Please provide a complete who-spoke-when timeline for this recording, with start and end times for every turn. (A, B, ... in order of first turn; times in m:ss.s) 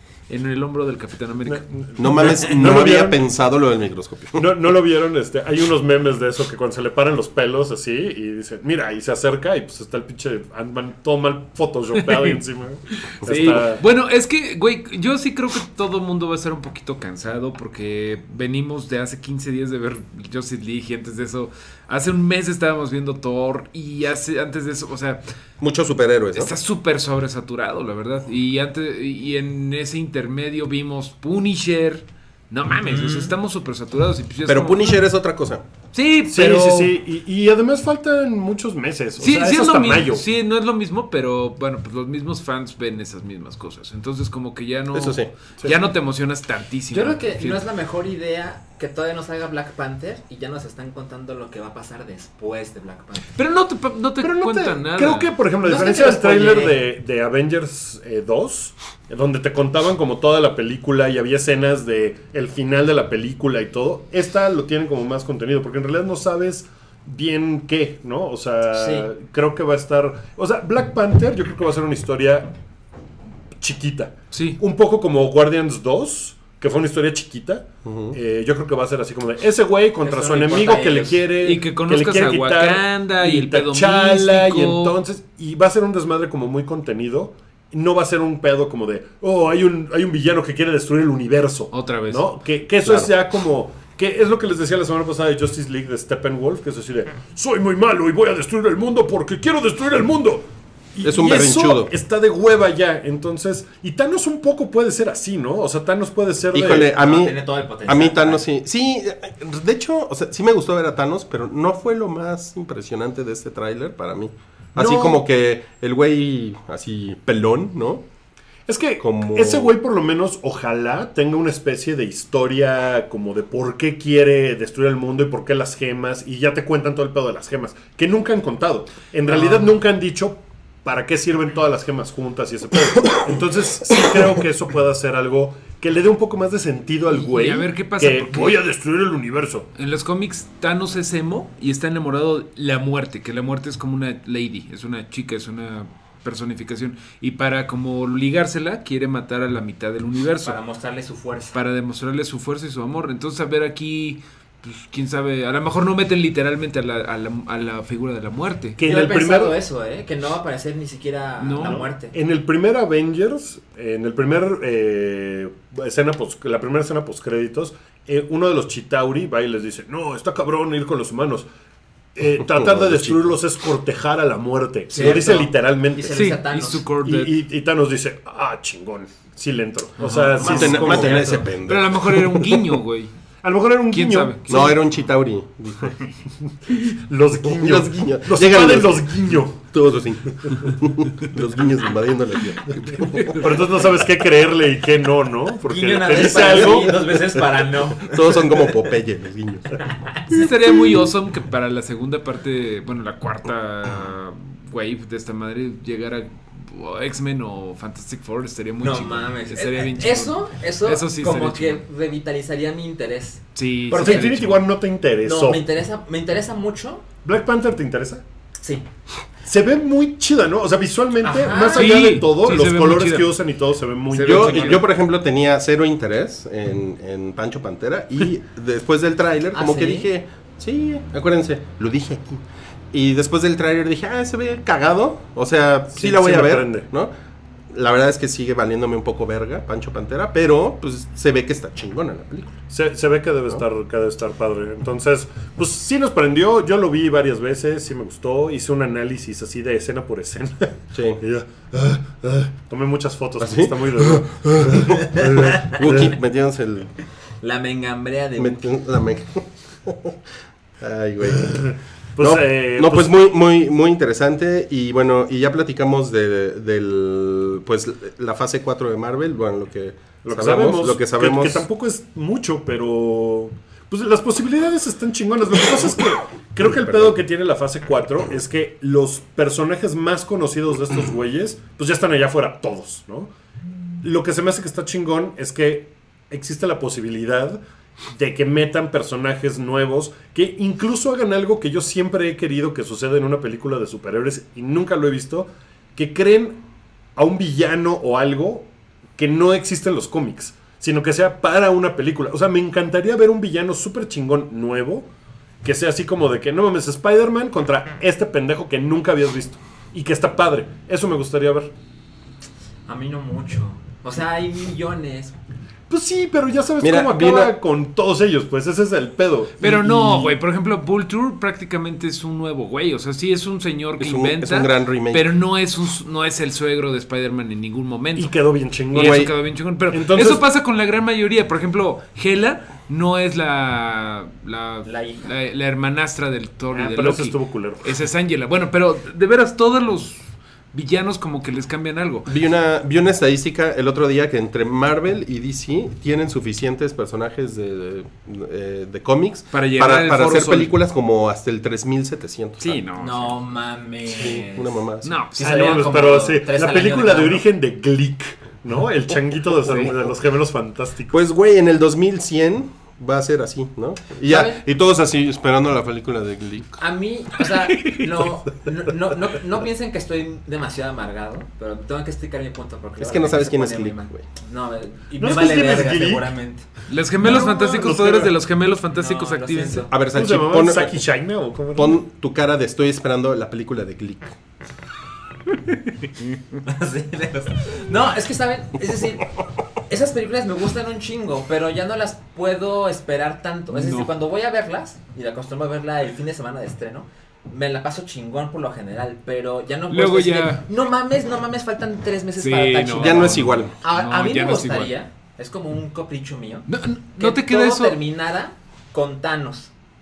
0:00.3-0:01.6 A
0:01.4-0:03.2 B
0:02.0-0:04.5 C
0:04.4-0:13.8 B
0:12.0-0:12.4 A
0:12.9-0:25.2 A
0:25.6-0:26.5 C
0:26.4-0:35.0 A
0:32.8-0:33.3 D
0:34.4-0:35.6 C
0:35.9-0:36.9 A
0:36.3-0:40.2 B
0:39.2-0:47.6 A
0:44.9-0:45.3 C
0:46.9-0:53.3 D
0:53.4-0:55.3 A
0:54.2-1:12.5 B
0:55.6-0:56.8 D
1:08.7-1:09.1 D
1:13.6-1:46.9 B
1:14.3-1:14.6 A
1:17.8-1:18.2 C
1:20.0-1:21.2 D
1:21.4-1:25.0 A
1:31.7-1:32.2 A
1:32.8-1:33.1 C
1:41.0-1:41.9 C
1:46.5-1:58.0 C
1:46.8-1:48.4 D
1:54.7-1:55.2 B
1:58.7-2:19.7 B
1:59.0-1:59.7 C
2:09.3-2:09.6 D
2:17.1-2:18.6 A
2:19.8-2:30.6 A
2:30.4-2:31.6 D
2:31.5-2:38.8 A
2:38.8-2:39.6 B
2:38.8-2:42.1 D
2:41.4-2:41.8 A
2:41.6-2:51.5 B
2:52.1-2:56.2 B
2:52.5-2:53.3 C
2:54.9-2:56.8 D
2:54.9-2:55.2 A
2:56.1-2:57.3 A
2:57.0-3:01.4 B
3:00.0-3:03.1 A
3:00.3-3:01.4 D
3:00.4-3:02.6 C
3:03.4-3:04.7 B
3:03.9-3:04.8 A
3:04.5-3:06.0 C
3:06.4-3:09.6 B
3:07.4-3:13.8 C
3:13.0-3:13.6 A
3:13.3-3:17.2 B
3:15.7-3:18.8 D
3:16.4-3:16.9 C
3:18.0-3:19.8 C
3:19.8-3:20.2 D
3:20.3-3:31.8 A
3:28.8-3:33.4 D
3:33.5-3:34.6 A
3:33.9-3:35.6 B
3:33.9-3:34.3 D
3:35.2-3:37.0 D
3:37.2-3:38.2 B
3:39.4-3:44.8 B
3:41.2-3:42.0 D
3:41.7-3:43.3 A
3:44.1-3:44.8 A
3:44.2-3:57.1 C
3:49.5-3:50.1 D
3:55.9-3:56.8 B
3:57.7-4:02.6 C
4:02.7-4:16.1 B
4:10.9-4:11.2 C
4:13.4-4:16.9 C
4:17.4-4:18.7 D
4:18.4-4:20.2 C
4:20.8-4:21.5 C
4:21.2-4:23.1 B
4:22.2-4:31.6 C
4:30.2-4:43.3 B
4:36.6-4:37.2 C
4:44.0-4:56.6 B
4:57.2-5:05.1 B
5:05.6-5:11.7 B
5:12.9-5:15.4 D
5:15.9-5:20.4 B
5:16.8-5:17.5 C
5:19.6-5:28.3 A
5:24.0-5:25.3 C
5:28.2-5:29.3 B
5:28.9-5:42.3 A
5:28.9-5:29.3 C
5:29.9-5:30.4 B
5:34.8-5:35.2 D
5:36.7-5:37.8 B
5:42.3-5:52.8 C
5:49.5-5:50.7 A
5:52.6-5:53.4 A
5:53.0-5:54.8 D
5:54.1-5:55.1 C
5:55.0-5:55.9 A
5:55.3-5:57.4 D
5:55.4-6:01.2 B
5:59.6-5:59.9 A
6:01.1-6:06.8 C
6:04.2-6:04.6 D
6:06.8-6:16.6 D
6:07.6-6:08.1 A
6:13.0-6:14.2 C
6:15.2-6:16.3 B
6:16.9-6:19.9 A
6:17.2-6:18.3 B
6:18.9-6:19.9 D
6:19.9-6:21.0 C
6:20.1-6:22.0 B
6:21.7-6:24.3 C
6:26.6-6:29.3 D
6:29.9-6:49.7 D
6:33.7-6:34.1 A
6:39.9-6:40.6 A
6:42.4-6:44.9 A
6:42.9-6:43.7 C
6:46.7-6:48.0 A